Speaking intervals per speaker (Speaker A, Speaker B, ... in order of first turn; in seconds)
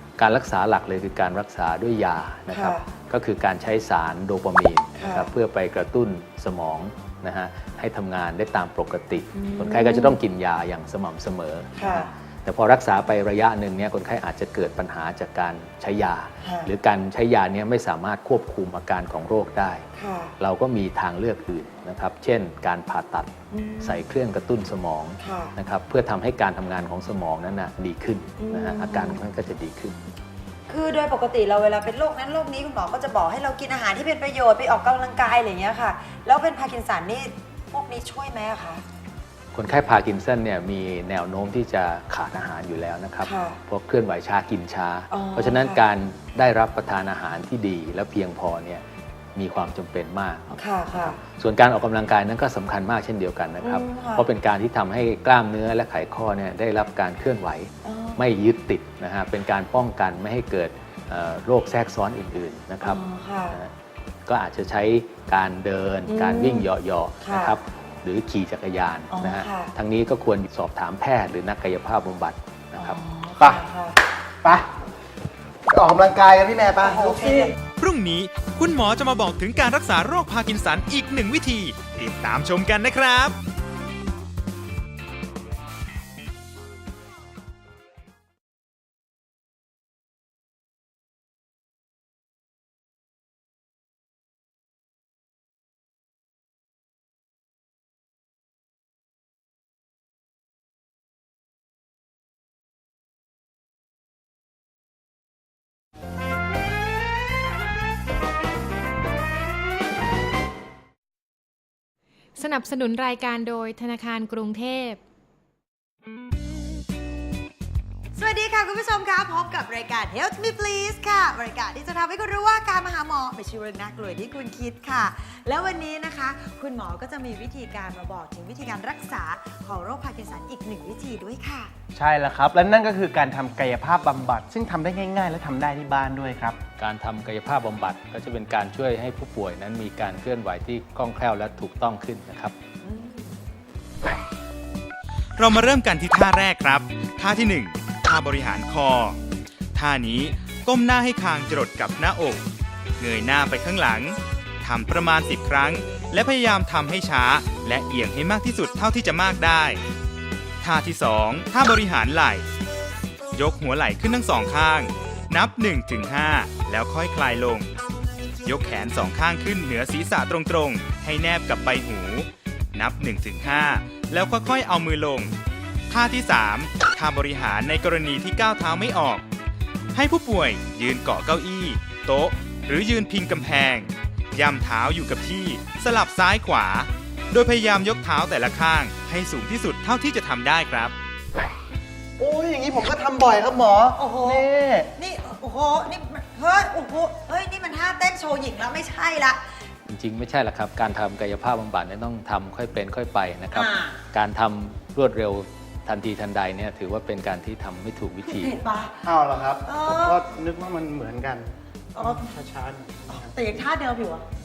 Speaker A: 0.2-19.9, 20.4-30.0, 39.5-48.8, 49.3-63.7, 64.2-73.0, 136.8-142.5, 199.8-208.6
Speaker B: 2.5-2.8, 5.0-5.3, 9.3-10.2, 11.8-12.1, 16.4-16.7, 19.9-20.3, 23.5-24.0, 25.2-25.5, 28.4-29.2, 30.7-38.8, 43.2-43.6, 45.1-45.8, 50.5-51.2, 53.6-54.3, 57.8-58.2, 62.8-63.6, 66.1-66.7, 67.2-67.5, 69.1-69.7, 72.8-74.0, 76.8-77.5, 118.1-131.7, 142.8-143.3, 194.0-199.4, 203.5-204.0, 208.3-209.0, 209.6-210.2, 211.9-212.3, 213.1-214.2
Speaker C: 73.4-73.6, 74.4-74.7, 75.7-77.5, 131.9-136.6, 192.2-194.9, 209.0-213.4
Speaker D: 77.8-83.4, 145.4-149.2, 149.7-152.4, 153.0-159.8, 160.6-162.5, 163.3-167.7, 168.4-175.3, 175.9-179.2, 179.9-190.9
Speaker E: 112.3-115.0